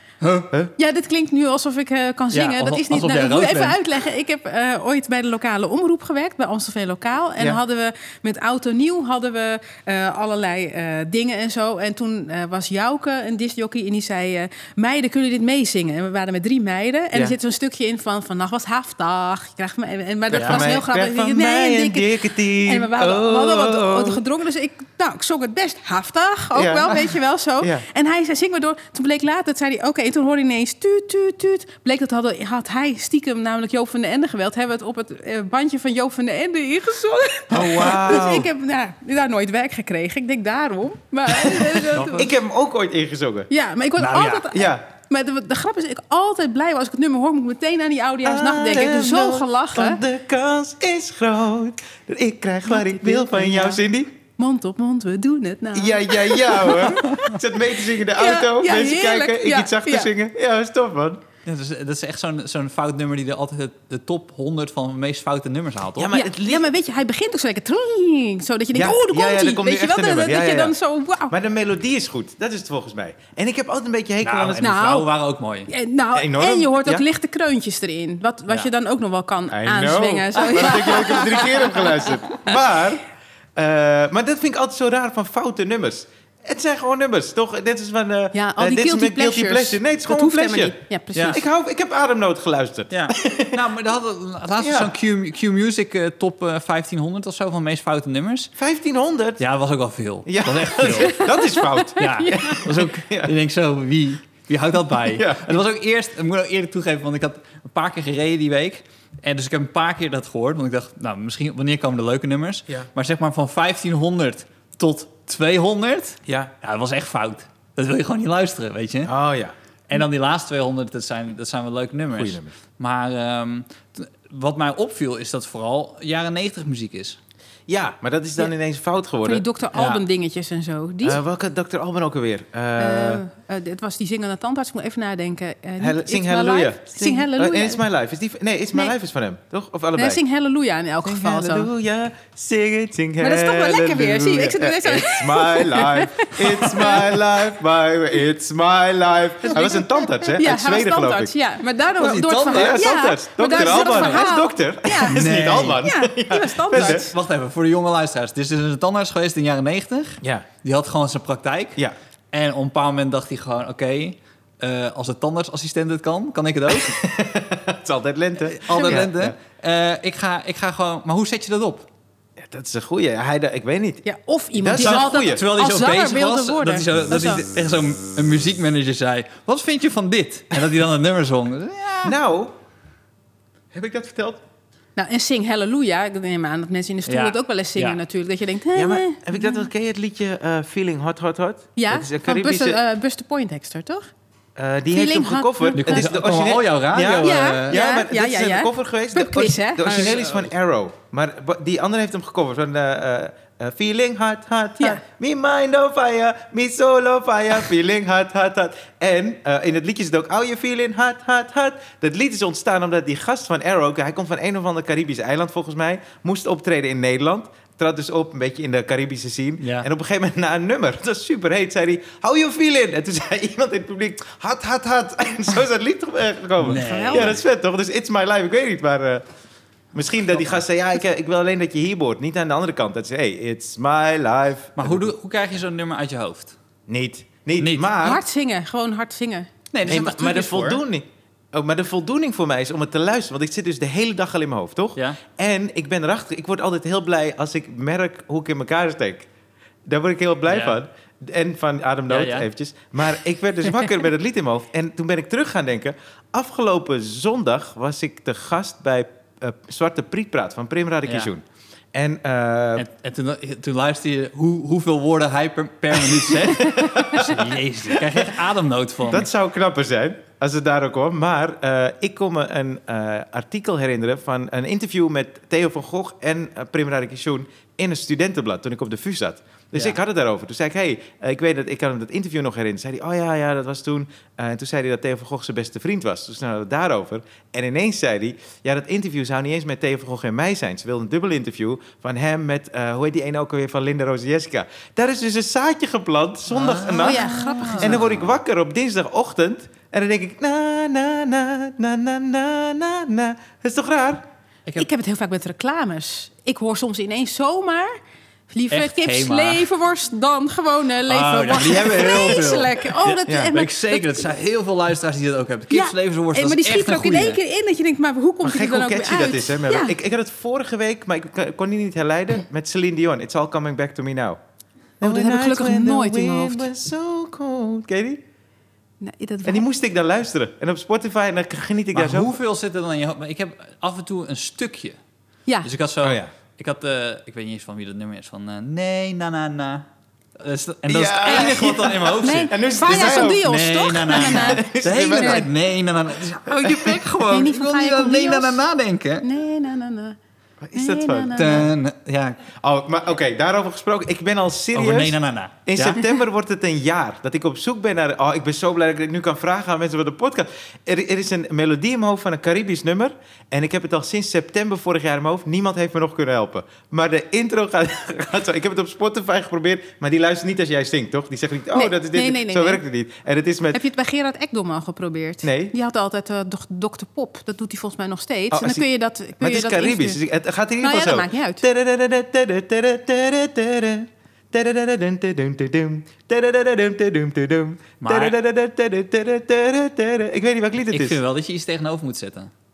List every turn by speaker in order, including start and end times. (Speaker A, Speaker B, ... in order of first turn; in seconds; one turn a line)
Speaker A: 0.2-0.5
Speaker B: 0.8-42.3
Speaker A: 2.3-4.0
Speaker C: 20.3-24.2
Speaker A: 20.3-20.6
Speaker C: 26.5-27.9
Speaker A: 37.5-38.3
Speaker C: 37.5-38.5
Speaker A: 41.9-42.2
Speaker C: 42.2-43.5
Speaker B: 43.5-50.0
Speaker A: 44.0-44.5
Speaker C: 44.5-44.8
Speaker C: 48.2-54.1
Speaker B: 52.7-53.8
Speaker B: 54.4-57.4
Speaker C: 55.7-61.2
Speaker B: 58.0-60.1
Speaker A: 61.5-66.1
Speaker C: 66.0-66.7
Speaker B: 66.1-71.3
Speaker C: 68.7-70.8
Speaker C: 71.3-74.8
Speaker A: 74.2-75.7
Speaker B: 74.6-75.1
Speaker B: 75.7-82.5
Speaker C: 76.2-77.0
Speaker C: 79.5-83.0
Speaker C: 83.6-90.8
Speaker B: 88.3-91.4
Speaker A: 91.2-91.4
Speaker C: 91.3-93.6
Speaker A: 92.9-98.5
Speaker C: 94.6-95.0
Speaker C: 98.6-99.4
Speaker A: 99.4-101.3
Speaker C: 100.3-103.3
Speaker B: 101.1-102.6
Speaker A: 102.0-119.1
Speaker C: 105.1-105.6
Speaker C: 116.3-116.5
Speaker C: 119.0-119.5
Speaker A: 119.9-127.2
Speaker C: 122.1-122.5
Speaker C: 127.7-129.4
Speaker B: 129.2-131.2
Speaker A: 129.8-130.0
Speaker C: 131.0-133.2
Speaker B: 132.8-137.8
Speaker C: 135.8-140.2
Speaker B: 140.0-141.7
Speaker C: 141.1-151.3
Speaker B: 143.2-147.4
Speaker B: 149.4-157.1
Speaker A: 152.0-152.8
Speaker C: 152.4-157.1
Speaker A: 153.6-154.3
Speaker A: 155.1-155.9
Speaker A: 156.7-167.0
Speaker C: 160.2-160.5
Speaker C: 166.7-169.4
Speaker A: 168.4-171.9
Speaker B: 168.7-169.1
Speaker C: 172.4-174.0
Speaker B: 174.1-177.4
Speaker C: 174.6-175.4
Speaker A: 174.8-182.2
Speaker C: 182.0-182.6
Speaker C: 183.7-184.4
Speaker B: 185.0-189.7
Speaker A: 187.1-188.0
Speaker C: 188.7-192.8
Speaker B: 191.8-194.1
Speaker C: 194.6-229.2
Speaker B: 194.9-196.1
Speaker A: 195.8-197.8
Speaker B: 197.2-200.2
Speaker A: 199.9-200.4
Speaker A: 219.6-219.9
Speaker A: 226.6-227.4
Speaker B: 226.7-227.4
Speaker C: 229.9-235.1
Speaker A: 234.8-236.6
Speaker C: 236.9-238.2
Speaker A: 237.6-237.9
Speaker B: 238.0-239.5
Speaker A: 239.7-240.8
Speaker C: 239.9-249.3
Speaker C: 249.9-262.9
Speaker A: 250.5-250.8
Speaker A: 252.1-252.5
Speaker A: 261.1-261.3
Speaker A: 262.8-269.3
Speaker C: 266.1-267.4
Speaker C: 269.1-304.3
Speaker A: 296.5-298.3
Speaker B: 297.0-298.0
Speaker B: 304.8-308.0
Speaker B: 308.5-314.3
Speaker A: 308.7-309.7
Speaker A: 311.1-317.4
Speaker C: 313.3-313.5
Speaker B: 315.7-319.9
Speaker C: 318.4-324.4
Speaker C: 325.0-328.2
Speaker B: 325.0-326.7
Speaker B: 329.0-329.7
Speaker C: 329.4-332.3
Speaker A: 331.9-335.0
Speaker A: 335.6-339.9
Speaker C: 336.0-336.3
Speaker A: 340.4-349.3
Speaker C: 340.9-343.5
Speaker B: 341.2-345.5
Speaker C: 344.1-345.5
Speaker B: 346.5-348.6
Speaker B: 349.2-350.2
Speaker C: 350.6-351.7
Speaker B: 350.7-351.7
Speaker A: 351.3-352.4
Speaker C: 352.6-373.8
Speaker A: 354.7-356.1
Speaker B: 371.7-372.8
Speaker B: 373.7-380.2
Speaker C: 375.4-375.7
Speaker C: 378.5-378.9
Speaker C: 379.4-391.2
Speaker B: 380.8-381.6
Speaker A: 388.0-388.4
Speaker A: 390.9-392.5